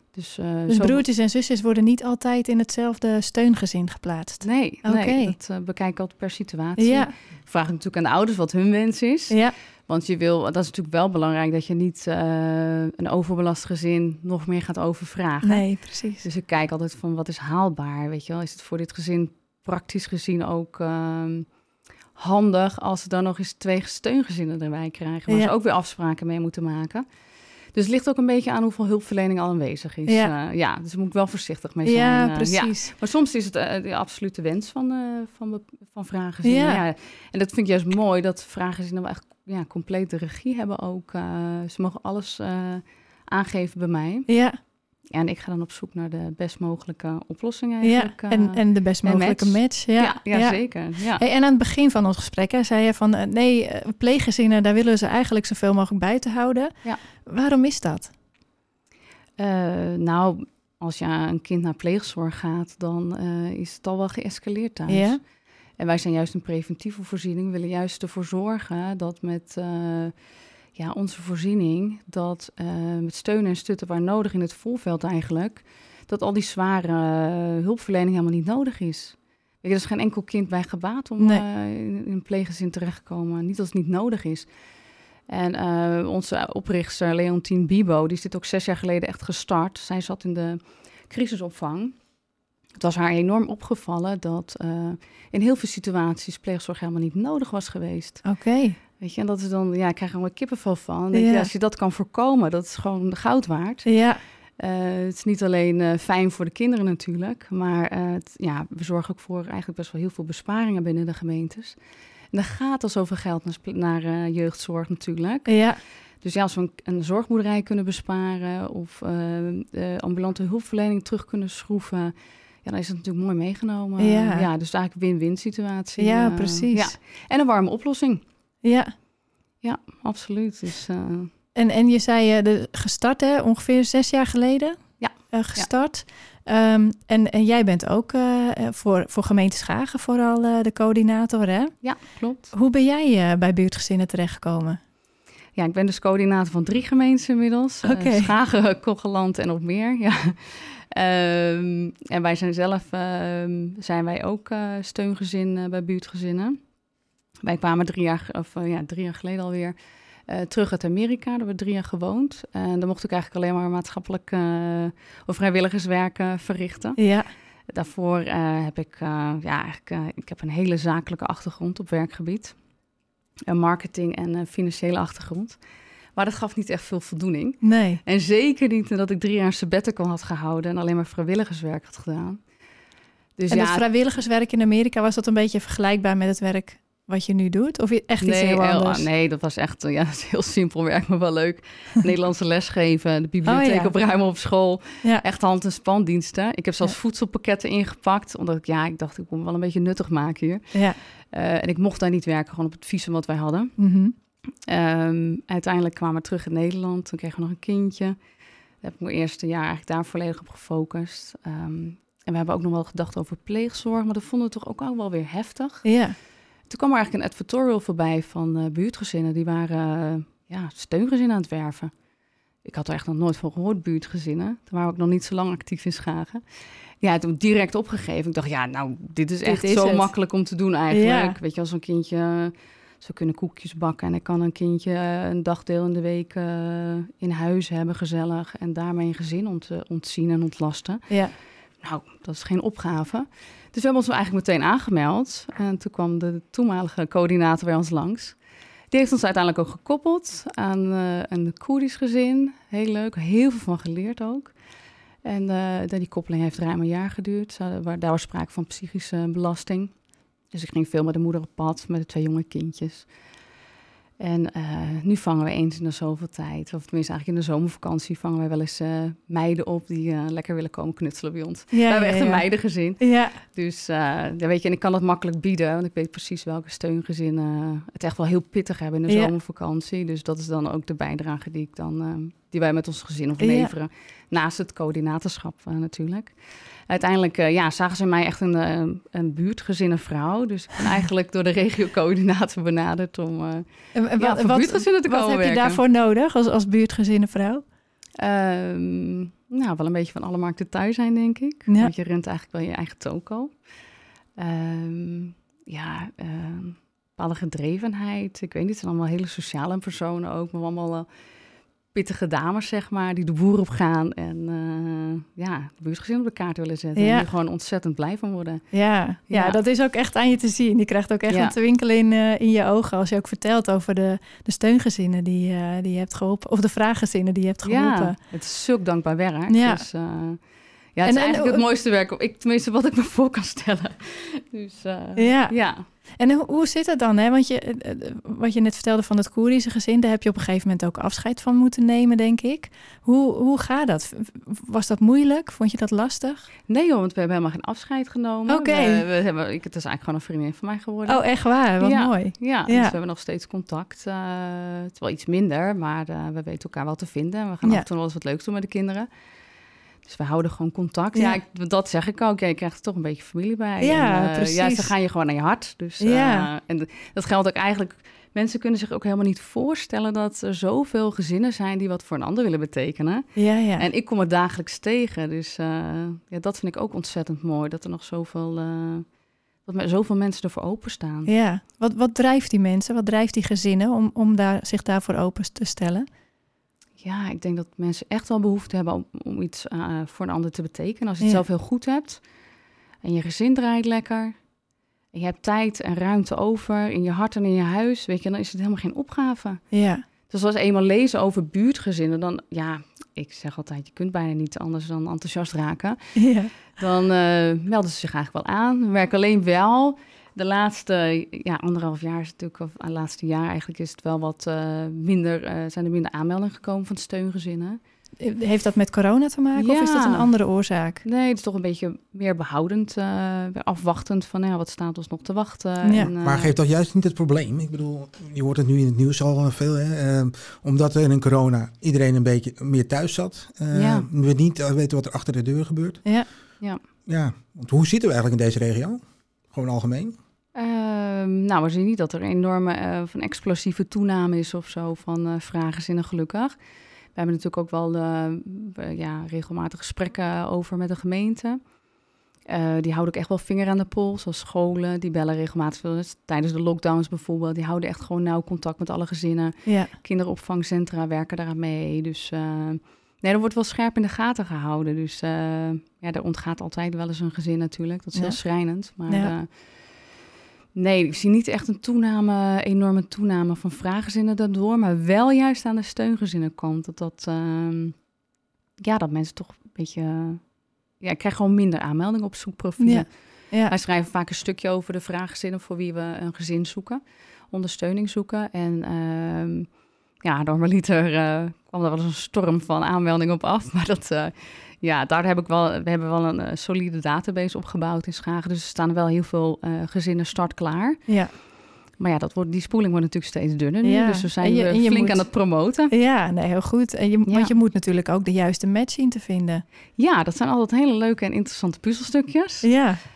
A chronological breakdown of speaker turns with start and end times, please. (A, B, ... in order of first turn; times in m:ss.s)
0:00.1-0:01.0 A
0:00.7-0:05.4 B
0:04.4-0:21.5 A
0:06.8-0:07.1 B
0:15.4-0:16.2 B
0:22.2-0:27.0 A
0:27.7-0:44.3 A
0:30.1-0:30.3 B
0:31.8-0:32.9 B
0:36.4-0:36.8 B
0:44.3-0:44.6 B
0:45.1-0:51.2 A
0:47.8-0:58.1 B
0:59.4-1:05.2 A
1:04.9-1:05.2 B
1:05.8-1:10.2 A
1:10.7-1:24.5 A
1:25.3-1:32.0 A
1:32.8-1:38.2 A
1:38.2-1:38.8 B
1:39.0-1:43.9 A
1:41.1-1:41.5 B
1:43.8-1:44.2 B
1:44.6-1:51.8 A
1:52.3-1:55.6 A
1:55.5-1:55.8 B
1:56.2-2:08.2 A
2:04.0-2:04.5 B
2:06.0-2:06.9 B
2:08.6-2:08.9 B
2:09.6-2:11.3 A
2:11.5-2:21.8 B
2:15.0-2:15.7 A
2:21.8-2:22.5 A
2:22.5-2:24.8 B
2:25.6-2:36.6 A
2:27.8-2:28.3 B
2:37.4-2:39.8 A
2:40.3-2:47.0 A
2:47.0-2:47.3 B
2:47.7-2:52.6 A
2:53.5-2:55.6 A
2:56.2-3:02.4 A
2:57.6-2:58.0 B
3:03.4-3:03.8 A
3:03.5-3:09.1 B
3:08.2-3:20.8 A
3:13.4-3:13.9 B
3:21.3-3:23.8 A
3:23.8-3:24.1 B
3:24.6-3:28.2 A
3:28.8-3:35.9 A
3:35.8-3:36.1 B
3:36.7-3:41.9 A
3:42.6-3:46.4 A
3:47.0-4:01.2 A
3:49.4-3:50.1 B
3:50.9-3:51.4 B
4:01.1-4:01.3 B
4:01.8-4:08.4 A
4:08.9-4:14.5 A
4:15.2-4:20.0 A
4:20.5-4:23.1 A
4:24.2-4:46.3 A
4:31.7-4:33.4 B
4:43.4-4:43.7 B
4:46.9-4:53.6 A
4:53.9-4:57.6 B
4:54.2-4:55.8 A
4:58.2-5:03.5 A
5:01.7-5:01.9 B
5:04.4-5:11.1 A
5:11.9-5:18.7 A
5:17.0-5:17.3 B
5:18.7-5:28.2 B
5:19.3-5:19.6 A
5:21.3-5:21.6 A
5:27.6-5:30.4 A
5:29.5-5:29.9 B
5:30.9-5:35.9 A
5:31.0-5:31.6 B
5:35.2-5:46.5 B
5:46.7-5:51.2 A
5:48.5-5:49.0 B
5:51.0-5:52.9 B
5:51.8-5:59.1 A
6:00.0-6:19.1 A
6:03.8-6:04.9 B
6:06.0-6:06.5 B
6:13.4-6:13.8 B
6:19.6-6:21.3 A
6:21.3-6:26.1 B
6:27.0-6:32.2 A
6:33.0-6:34.4 A
6:35.1-6:39.6 A
6:39.7-6:40.0 B
6:40.3-6:46.2 A
6:46.2-6:46.5 B
6:46.7-6:57.8 A
6:58.2-7:01.0 B
6:59.6-7:00.3 A
7:01.0-7:06.5 A
7:05.8-7:06.1 B
7:06.2-7:16.0 C
7:13.7-7:14.1 A
7:17.0-7:20.2 C
7:20.5-7:26.5 A
7:27.1-7:31.6 A
7:32.4-7:49.5 A
7:39.6-7:39.9 B
7:48.1-7:48.4 B
7:49.1-7:49.3 B
7:50.8-7:58.0 A
7:58.8-8:00.4 A
8:01.0-8:09.7 A
8:02.8-8:03.7 B
8:10.2-8:21.1 A
8:21.1-8:21.3 B
8:22.0-8:25.9 A
8:23.8-8:25.4 B
8:25.9-8:29.6 B
8:27.3-8:27.5 A
8:30.0-8:32.7 A
8:32.6-8:33.0 B